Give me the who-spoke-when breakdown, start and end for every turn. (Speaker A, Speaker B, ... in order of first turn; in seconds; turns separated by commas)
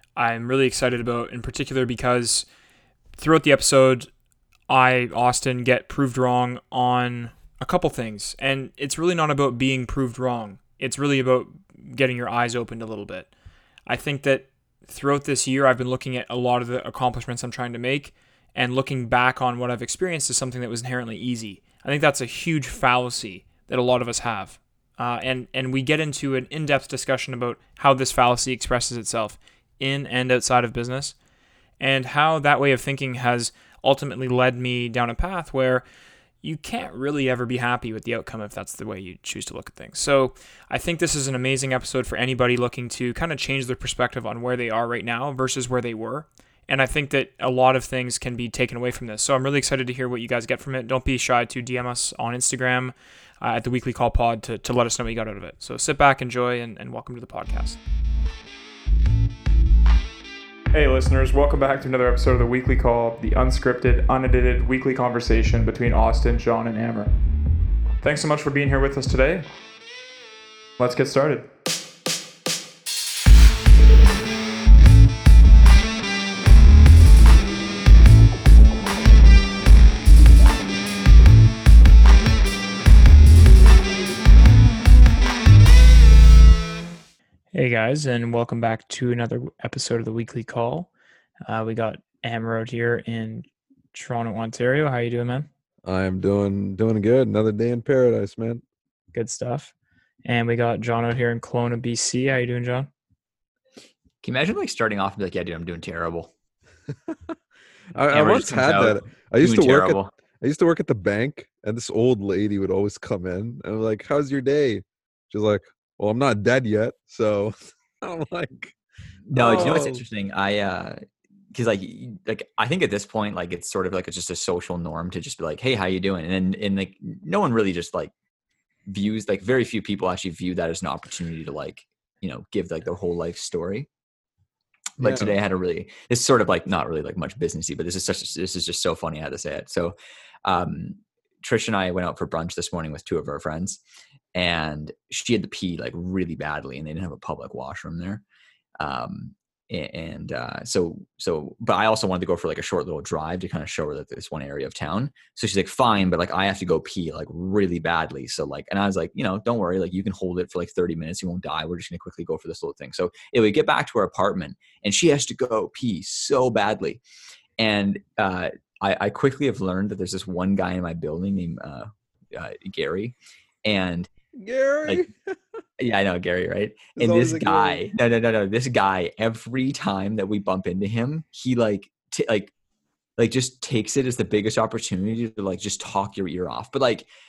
Speaker A: 0.1-2.5, Speaker A: 3.1-4.1, Speaker A: 4.7-13.3, Speaker A: 13.9-31.1, Speaker A: 31.8-35.8, Speaker A: 36.4-57.8, Speaker A: 60.7-67.1, Speaker A: 68.0-69.5, Speaker A: 70.8-71.5, Speaker A: 87.5-90.9, Speaker A: 91.5-95.5, Speaker B: 95.8-98.6, Speaker A: 99.1-99.7, Speaker A: 100.2-102.9, Speaker C: 104.2-106.3, Speaker B: 107.1-107.3, Speaker B: 108.0-118.8, Speaker C: 108.1-110.1, Speaker C: 119.3-121.0, Speaker B: 119.3-120.0, Speaker C: 121.5-128.1, Speaker C: 128.9-133.9, Speaker C: 135.0-143.8, Speaker B: 135.0-135.3, Speaker C: 144.3-148.2, Speaker C: 148.8-167.0, Speaker C: 167.6-174.1, Speaker B: 174.3-175.4, Speaker C: 175.8-182.5, Speaker B: 177.0-177.8, Speaker C: 183.2-187.1